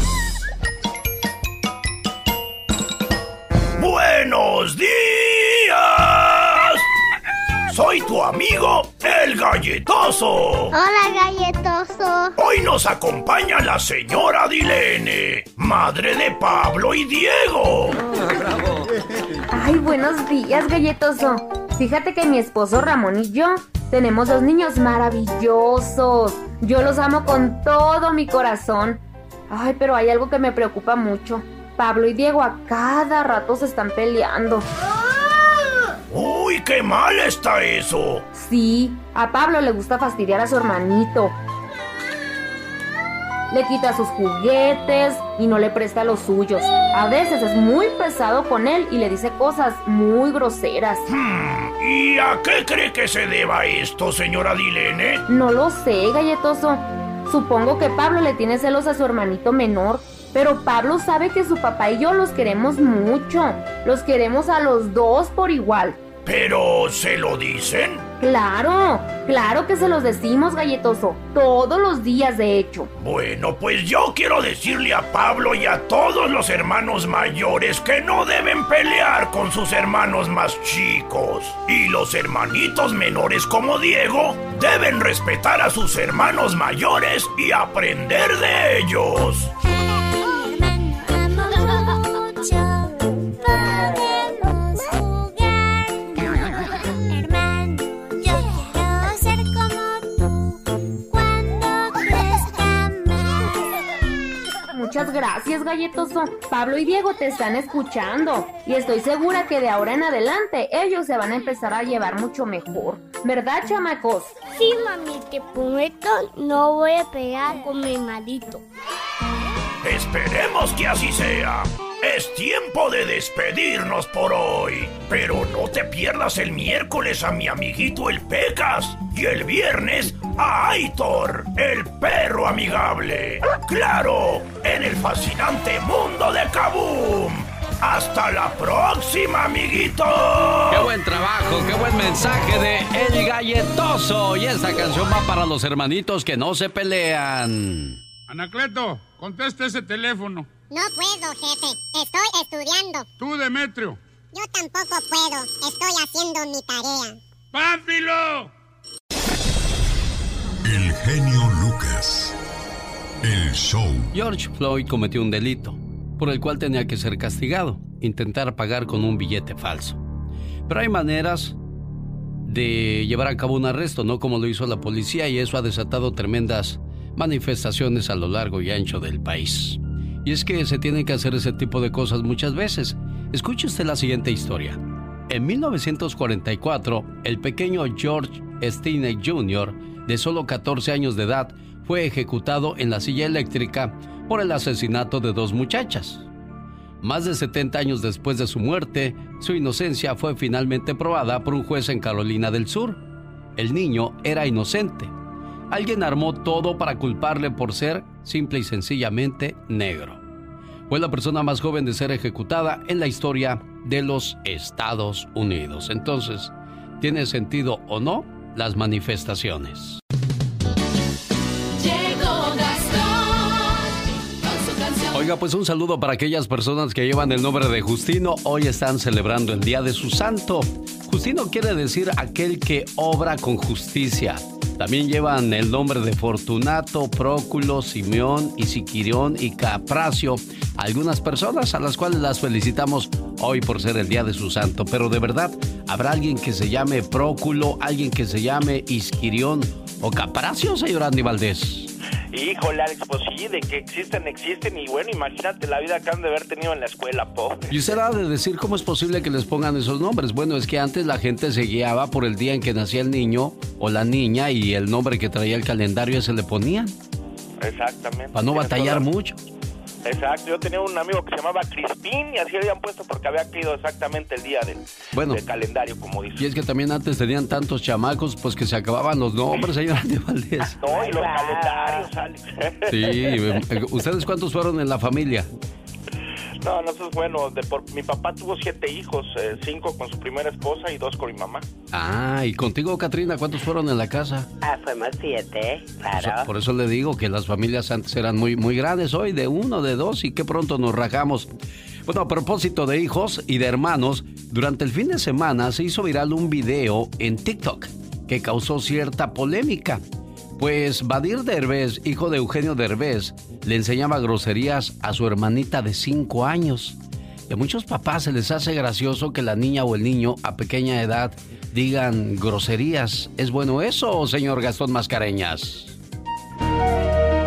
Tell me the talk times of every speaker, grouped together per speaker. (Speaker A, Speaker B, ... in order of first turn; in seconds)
Speaker A: 3.8-6.9, 7.7-10.8, 12.4-18.0, 36.1-38.3, 51.1-55.2, 66.2-68.0, 73.0-89.5, 119.8-140.9
Speaker B: 10.7-12.3, 90.4-91.7, 92.4-92.9, 93.4-95.5, 96.1-96.5, 97.1-100.2, 101.1-103.5, 114.5-118.6
Speaker C: 19.5-34.7, 38.3-41.4, 43.5-51.1, 55.3-66.0, 68.2-72.9, 104.7-114.4
Speaker D: 140.7-148.0, 164.1-170.0, 170.7-171.6, 172.4-196.3, 197.0-203.0, 203.6-205.1, 205.7-210.2, 210.9-220.0, 225.1-251.9, 257.7-266.9, 268.3-269.4, 275.1-275.4, 276.4-280.8, 282.9-285.5, 291.9-294.5, 296.1-301.5, 302.1-310.0, 310.6-317.0, 317.5-326.0
Speaker E: 148.3-150.5, 153.2-154.0, 157.5-158.5
Speaker F: 150.7-153.1, 154.3-157.2
Speaker G: 160.6-162.4, 163.2-164.1
Speaker H: 252.3-258.0, 267.6-269.1, 270.1-276.5, 280.8-283.1, 286.6-291.6
Speaker I: 280.8-282.1, 294.6-296.5